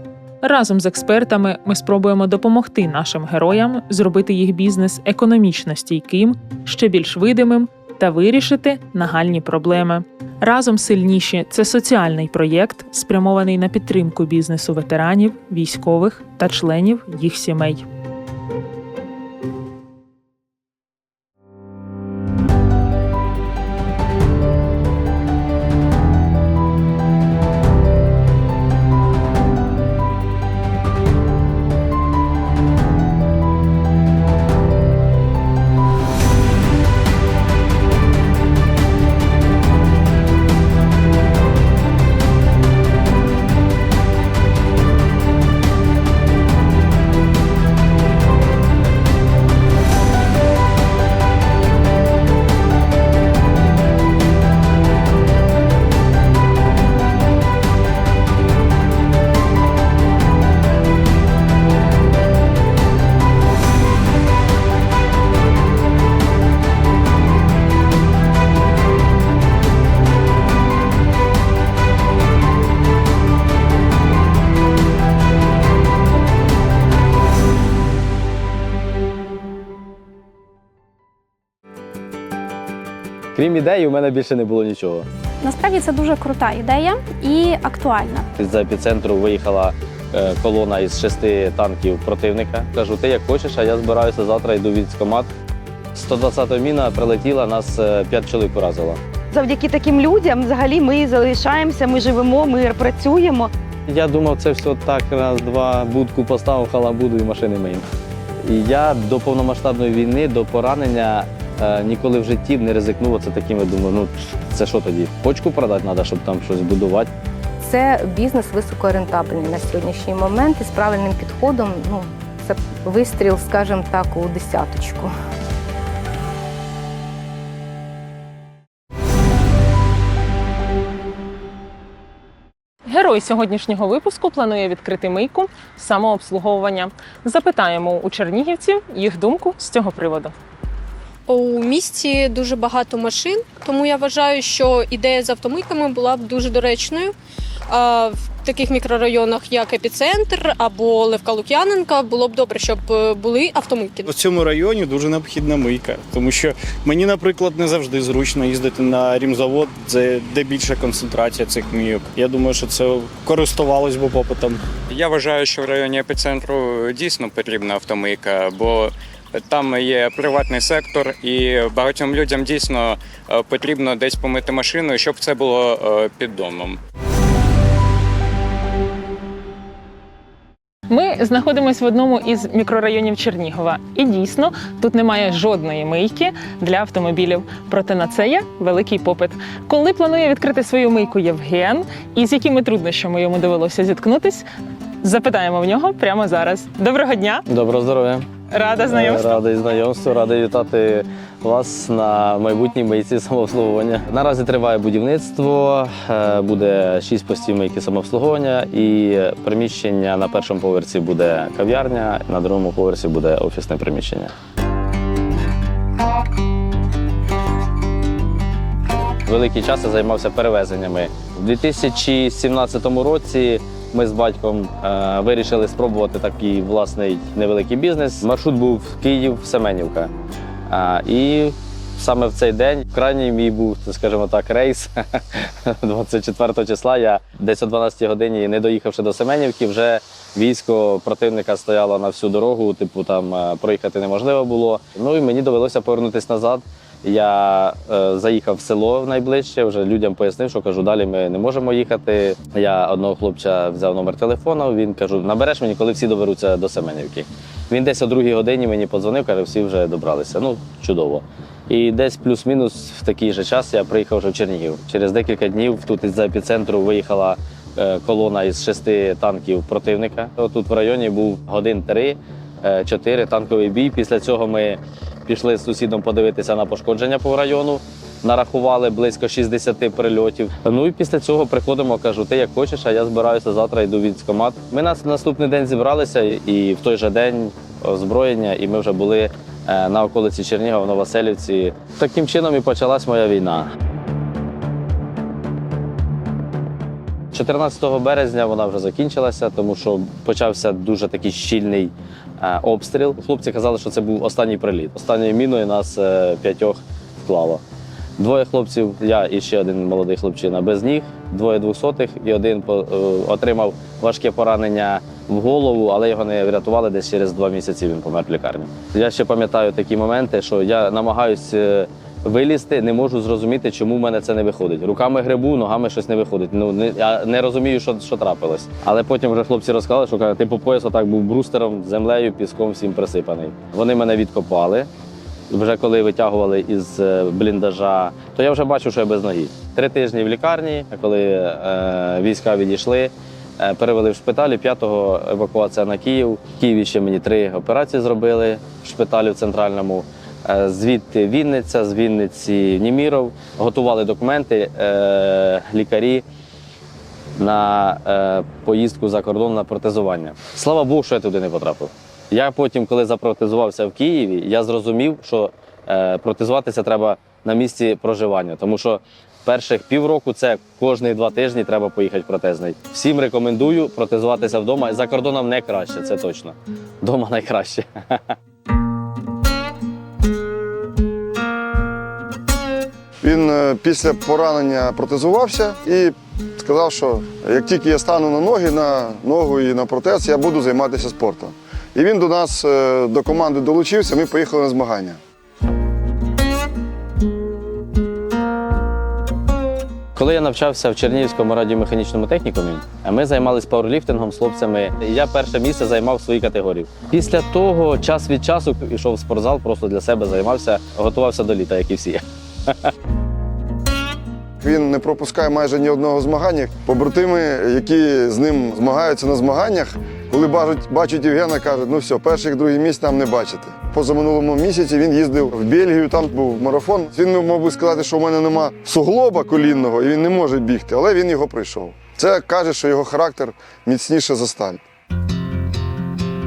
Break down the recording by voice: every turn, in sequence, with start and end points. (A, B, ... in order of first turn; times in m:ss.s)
0:00.4-0:17.9 A
1:23.4-1:25.1 B
1:25.4-1:28.3 C
1:28.4-1:35.3 B
1:35.9-1:39.0 B
1:39.3-1:43.5 D
1:43.9-1:47.8 B
1:48.4-1:57.1 B
1:57.6-2:05.1 E
2:12.8-2:20.3 A
2:21.3-2:27.1 F
2:27.7-2:34.1 F
2:34.1-2:44.6 G
2:44.9-2:56.8 H
3:00.9-3:14.4 A
3:15.0-3:17.4 A
3:17.5-3:18.3 B
3:18.5-3:19.4 A
3:18.9-3:34.3 B
3:39.3-3:50.1 B
3:50.7-4:53.7 B
4:57.3-5:07.6 B
5:08.2-5:34.9 B
5:35.5-5:56.2 B
5:57.4-6:18.2 B
6:23.2-6:35.2 I
6:40.2-6:52.9 B
6:54.6-7:14.8 I